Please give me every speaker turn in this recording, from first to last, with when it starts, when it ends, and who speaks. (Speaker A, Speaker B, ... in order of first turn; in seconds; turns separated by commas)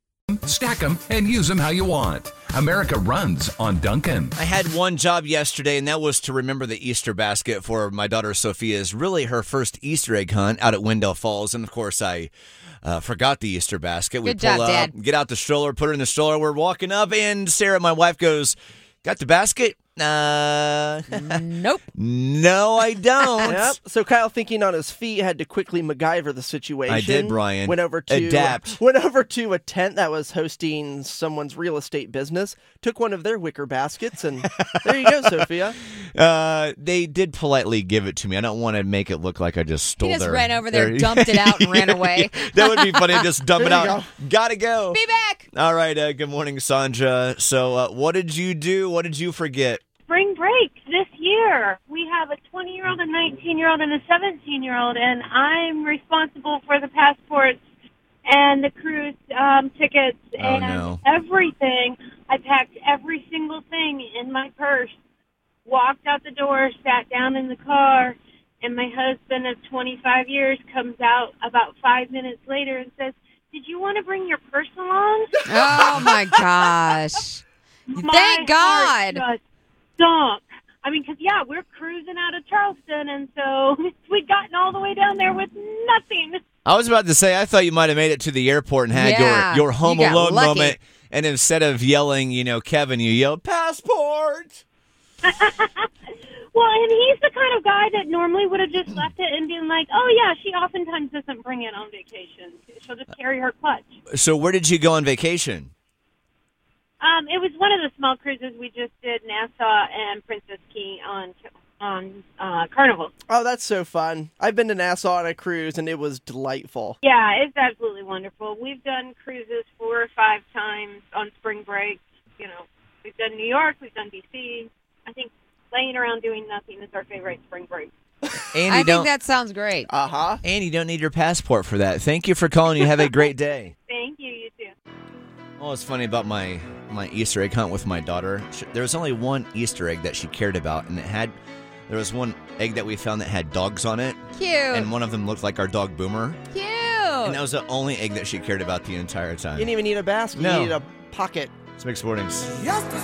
Speaker A: 0.4-4.3, Speaker B: 4.3-12.3, Speaker B: 12.8-21.4, Speaker C: 14.2-14.9, Speaker C: 21.1-21.8, Speaker B: 21.9-23.7, Speaker D: 23.4-35.8, Speaker B: 26.9-28.8, Speaker B: 34.5-35.5, Speaker B: 36.1-45.0, Speaker C: 40.0-43.2, Speaker D: 43.6-44.0, Speaker C: 44.9-45.5, Speaker B: 45.5-49.8, Speaker E: 50.1-57.6, Speaker E: 58.2-64.9, Speaker B: 60.4-61.0, Speaker E: 65.6-76.4, Speaker C: 75.5-77.4, Speaker E: 77.9-79.4, Speaker C: 77.9-79.2, Speaker E: 80.0-86.4, Speaker B: 86.6-94.6, Speaker C: 88.9-90.7, Speaker E: 95.2-95.9, Speaker E: 96.5-103.9, Speaker B: 104.1-105.7, Speaker E: 107.0-113.1, Speaker D: 113.3-117.0, Speaker E: 117.0-127.9, Speaker B: 128.5-129.1, Speaker C: 128.7-129.9, Speaker D: 129.9-130.4, Speaker B: 130.4-133.7, Speaker E: 133.9-134.7, Speaker B: 135.6-141.4, Speaker B: 141.9-144.2, Speaker C: 144.3-144.9, Speaker B: 144.7-146.4, Speaker C: 146.5-147.4, Speaker B: 147.2-149.7, Speaker D: 149.6-151.5, Speaker B: 150.3-150.8, Speaker B: 151.8-152.6